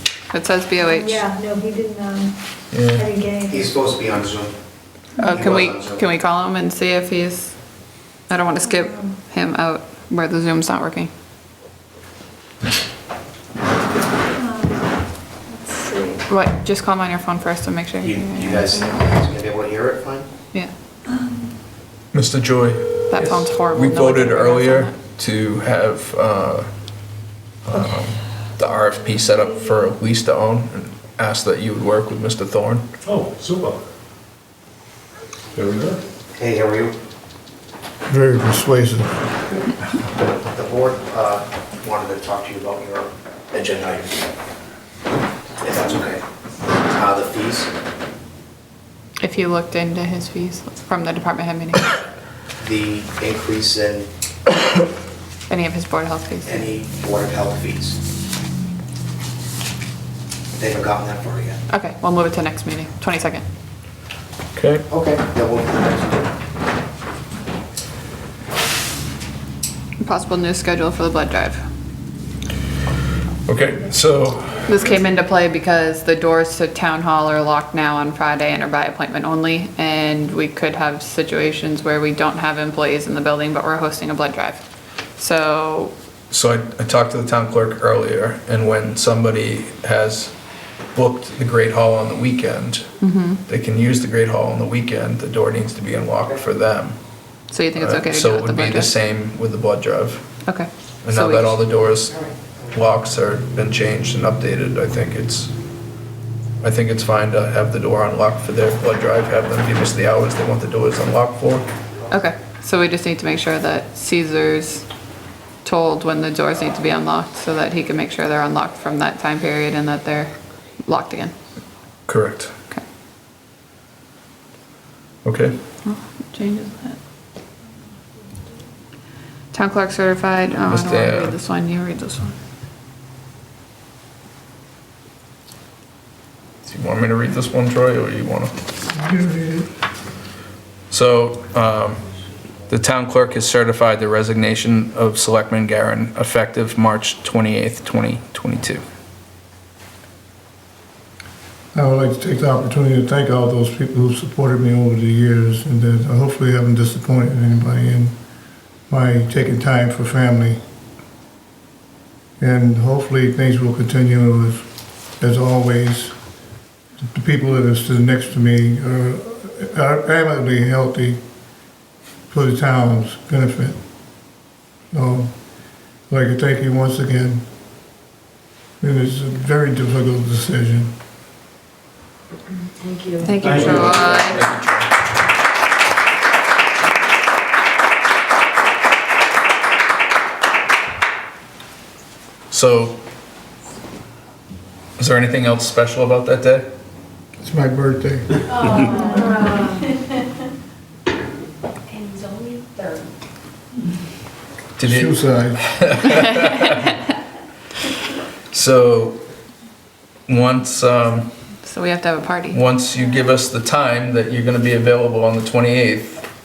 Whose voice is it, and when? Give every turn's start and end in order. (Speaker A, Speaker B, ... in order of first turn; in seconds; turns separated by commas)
Speaker A: 0.3-1.3, Speaker B: 0.9-2.4, Speaker C: 2.7-3.1, Speaker B: 2.9-3.7, Speaker D: 3.5-4.5, Speaker A: 5.2-7.5, Speaker D: 5.3-6.0, Speaker A: 8.3-11.1, Speaker B: 14.4-14.8, Speaker B: 15.7-16.2, Speaker A: 16.3-18.9, Speaker D: 18.0-20.3, Speaker C: 22.1-26.7, Speaker A: 23.1-24.9, Speaker C: 27.6-32.9, Speaker E: 33.0-33.8, Speaker E: 35.5-36.0, Speaker D: 36.3-37.0, Speaker F: 38.1-39.1, Speaker D: 40.2-44.2, Speaker D: 45.6-46.2, Speaker D: 46.8-47.7, Speaker A: 49.2-51.9, Speaker D: 52.6-54.1, Speaker A: 55.5-56.7, Speaker D: 56.5-58.0, Speaker D: 60.5-61.6, Speaker A: 61.7-63.4, Speaker C: 64.5-64.9, Speaker D: 64.9-66.3, Speaker A: 70.0-71.6, Speaker C: 73.5-74.6, Speaker A: 74.7-84.6, Speaker A: 85.2-85.9, Speaker C: 86.3-90.3, Speaker C: 90.9-92.9, Speaker A: 93.0-93.4, Speaker C: 93.5-97.0, Speaker A: 97.5-98.9, Speaker C: 97.8-100.2, Speaker A: 100.5-101.6, Speaker C: 101.0-105.5, Speaker D: 102.1-102.5, Speaker C: 106.6-111.7, Speaker A: 112.1-114.8, Speaker A: 115.6-121.3, Speaker C: 122.1-122.5, Speaker C: 125.2-125.6, Speaker A: 125.8-127.0, Speaker A: 129.5-132.4, Speaker C: 130.7-131.4, Speaker C: 136.6-138.6, Speaker F: 138.9-139.7, Speaker C: 140.9-142.0, Speaker C: 142.7-148.8, Speaker F: 151.7-158.2, Speaker F: 158.9-160.6, Speaker F: 162.4-164.7, Speaker F: 165.2-166.2, Speaker F: 167.0-171.2, Speaker F: 172.3-173.8, Speaker F: 174.9-175.4, Speaker F: 176.1-177.4, Speaker F: 178.8-180.9, Speaker B: 182.8-183.5, Speaker A: 183.2-184.5, Speaker E: 183.4-184.0, Speaker C: 183.6-184.9, Speaker C: 192.5-193.0, Speaker C: 195.0-196.7, Speaker F: 197.4-199.2, Speaker G: 198.5-200.0, Speaker B: 198.8-199.8, Speaker G: 201.9-203.1, Speaker C: 204.8-206.9, Speaker F: 204.8-205.6, Speaker A: 206.3-206.9, Speaker C: 208.5-209.2, Speaker C: 210.3-211.3, Speaker A: 211.6-212.6, Speaker C: 212.5-216.2